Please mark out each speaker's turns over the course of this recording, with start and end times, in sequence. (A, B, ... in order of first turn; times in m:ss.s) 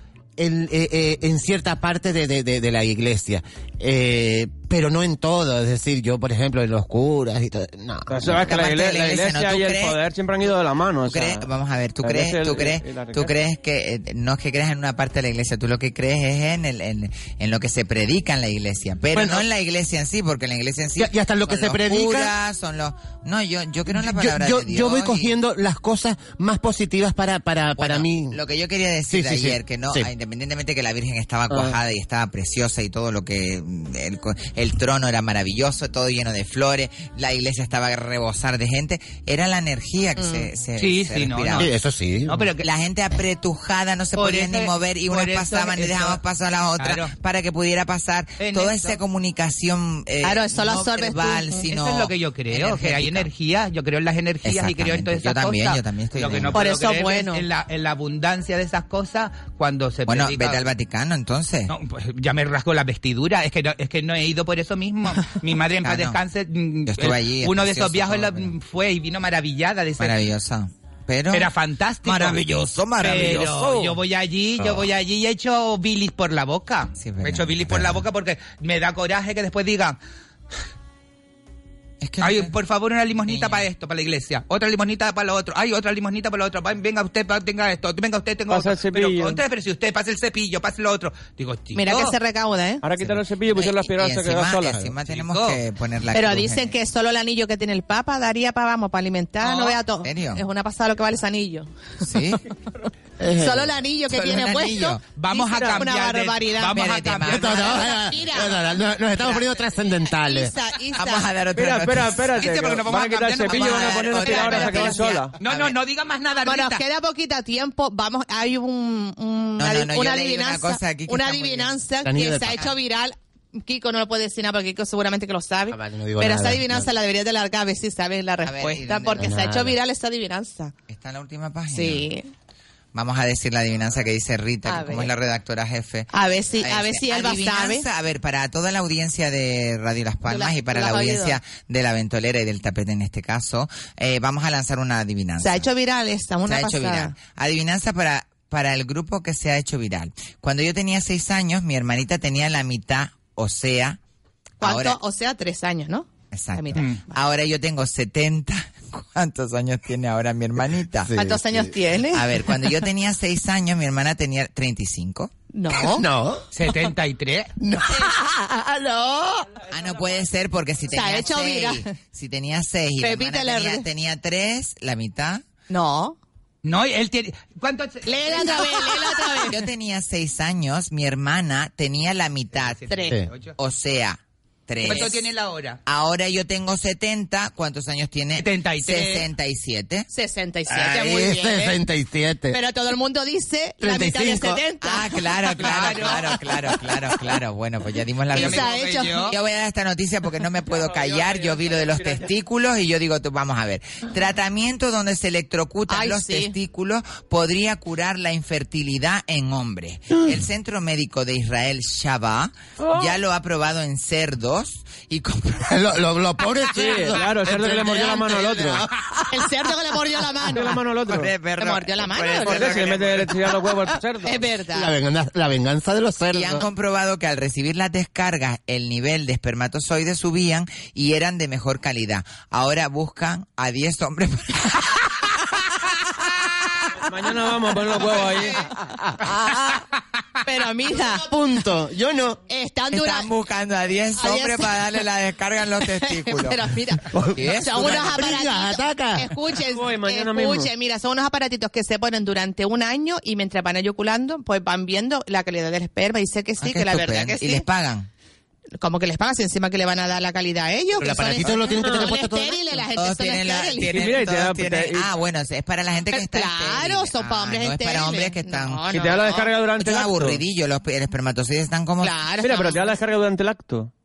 0:00.4-0:08.5 A
0:08.1-0:11.5 B
0:08.3-0:10.0 C
0:11.0-0:25.3 C
0:12.0-0:13.4 B
0:19.2-0:19.4 A
0:21.0-0:22.3 A
0:23.9-0:28.4 A
0:27.8-0:41.7 C
0:29.1-0:30.1 A
0:40.2-0:40.5 D
0:40.8-0:41.7 E
0:41.6-0:42.4 A
0:42.3-0:42.6 E
0:42.6-0:53.3 C
0:44.2-0:46.2 E
0:46.8-0:47.1 E
0:48.4-0:49.0 E
0:50.2-0:51.6 D
0:51.7-1:00.7 E
0:54.4-0:56.7 C
0:56.5-0:57.5 D
1:00.1-1:01.7 C
1:01.7-1:10.1 E
1:05.8-1:06.2 C
1:06.9-1:08.5 C
1:10.0-1:11.5 C
1:11.3-1:20.0 E
1:12.0-1:13.8 C
1:13.4-1:13.9 B
1:17.0-1:18.0 C
1:22.0-1:22.5 C
1:22.2-1:32.2 E
1:23.3-1:23.7 C
1:28.5-1:29.4 B
1:31.8-1:32.9 D
1:32.8-1:34.8 B
1:33.0-1:36.8 C
1:35.1-1:35.6 E
1:36.1-1:42.3 D
1:39.4-1:39.8 E
1:40.0-1:40.4 C
1:42.0-1:42.4 C
1:43.2-1:43.7 A
1:43.3-1:49.5 D
1:44.1-1:45.0 C
1:45.1-1:47.9 E
1:46.7-1:48.0 C
1:47.3-1:50.5 A
1:50.1-1:51.3 D
1:51.0-1:52.7 C
1:51.5-1:55.4 B
1:52.4-1:56.8 E
1:53.5-1:55.8 C
1:53.7-1:55.3 D
1:56.4-2:10.7 D
1:59.6-2:01.8 C
2:02.0-2:02.6 A
2:05.7-2:06.9 A
2:08.4-2:09.3 C
2:09.2-2:09.8 A
2:10.9-2:12.1 C
2:11.7-2:12.3 D
2:12.9-2:25.7 C
2:14.7-2:15.1 D
2:16.1-2:17.9 D
2:20.2-2:21.4 D
2:25.4-2:27.2 D
2:26.4-2:34.0 C
2:34.6-2:37.0 D
2:34.6-2:35.0 C
2:36.3-2:41.2 C
2:36.8-2:37.0 E
2:41.0-2:41.7 A
2:41.1-2:42.5 D
2:42.1-2:45.3 C
2:45.5-2:46.1 D
2:45.8-2:46.4 A
2:46.5-2:47.5 E
2:47.6-2:48.2 A
2:47.9-2:49.4 D
2:49.7-2:55.4 C
2:50.9-2:52.0 D
2:53.0-2:53.9 D
2:55.7-2:56.2 D
2:56.6-2:59.0 E
2:58.1-2:59.7 D
2:59.5-3:02.9 C
3:02.5-3:03.6 E
3:02.9-3:03.2 D
3:03.6-3:05.2 C
3:04.8-3:05.8 E
3:05.9-3:10.1 C
3:08.4-3:09.3 E
3:10.1-3:11.8 D
3:10.7-3:12.6 A
3:12.5-3:15.8 D
3:13.8-3:14.6 A
3:14.8-3:18.7 C
3:15.6-3:16.2 E
3:18.3-3:19.4 D
3:18.3-3:19.3 E
3:19.3-3:35.8 C
3:20.7-3:22.3 B
3:25.9-3:26.6 D
3:32.8-3:33.2 B
3:35.7-3:38.9 A
3:36.7-3:38.8 B
3:39.3-3:40.8 D
3:40.5-3:41.3 B
3:41.1-3:43.3 C
3:41.5-3:44.9 D
3:42.4-3:44.4 B
3:44.7-3:46.7 A
3:46.3-3:55.1 C
3:57.0-3:58.6 B
3:58.1-3:58.5 D
3:58.4-3:59.8 A
4:00.4-4:01.3 D
4:01.0-4:02.4 A
4:02.5-4:03.3 D
4:02.9-4:06.7 C
4:04.1-4:05.1 D
4:05.8-4:17.7 D
4:07.1-4:09.4 A
4:07.4-4:08.3 C
4:09.7-4:10.7 B
4:16.6-4:18.1 C
4:18.8-4:24.2 D
4:21.0-4:22.8 A
4:21.4-4:21.7 C
4:23.0-4:29.2 C
4:23.9-4:25.1 B
4:26.1-4:29.6 D
4:28.9-4:30.4 B
4:29.7-4:32.2 C
4:32.0-4:33.0 D
4:32.4-4:33.9 B